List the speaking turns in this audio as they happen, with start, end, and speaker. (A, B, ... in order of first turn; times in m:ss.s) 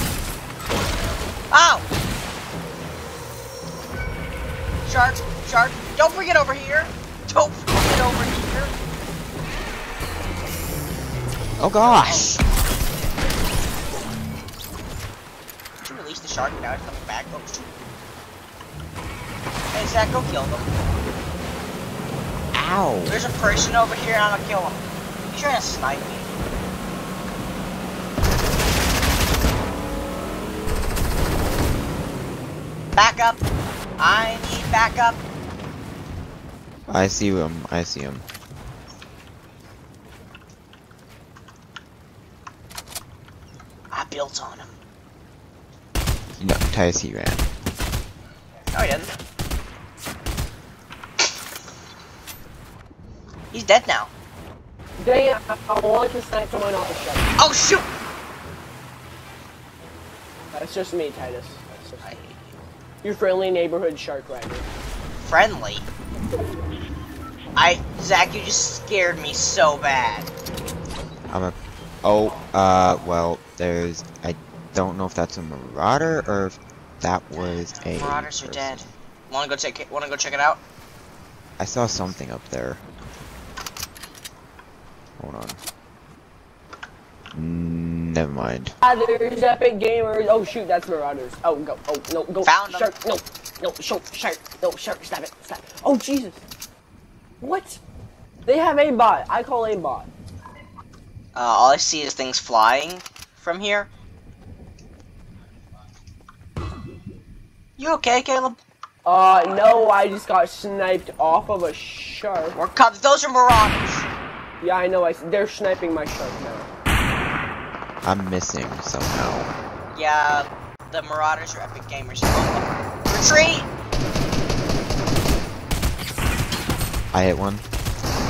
0:01.5-0:01.8 A
0:04.8-0:08.8 A
0:11.6-0:12.4 B
0:11.8-0:12.3 A
0:15.8-0:17.8 A
0:19.7-0:20.7 A
0:22.5-0:23.2 B
0:23.1-0:26.3 A
0:33.0-0:33.4 A
0:34.0-0:35.2 A
0:36.9-0:38.2 B
0:43.9-0:44.8 A
0:46.4-0:47.4 B
0:48.7-0:49.1 A
0:53.5-0:54.1 A
0:55.0-0:57.3 C
0:57.4-0:57.9 A
1:00.5-1:02.1 C
1:02.0-1:02.6 A
1:03.0-1:04.7 C
1:05.2-1:05.9 A
1:07.6-1:10.3 A
1:11.3-1:18.9 B
1:17.4-1:20.6 A
1:21.6-1:22.8 B
1:25.2-1:25.6 B
1:27.3-1:28.8 B
1:28.8-1:36.4 C
1:32.4-1:32.9 A
1:37.4-1:37.8 C
1:38.5-1:40.1 C
1:41.4-1:43.9 A
1:47.8-1:48.6 A
1:49.0-1:52.6 C
1:52.5-1:54.1 A
1:54.6-1:56.7 C
1:58.0-1:59.5 B
1:59.9-2:03.7 A
2:07.1-2:07.6 B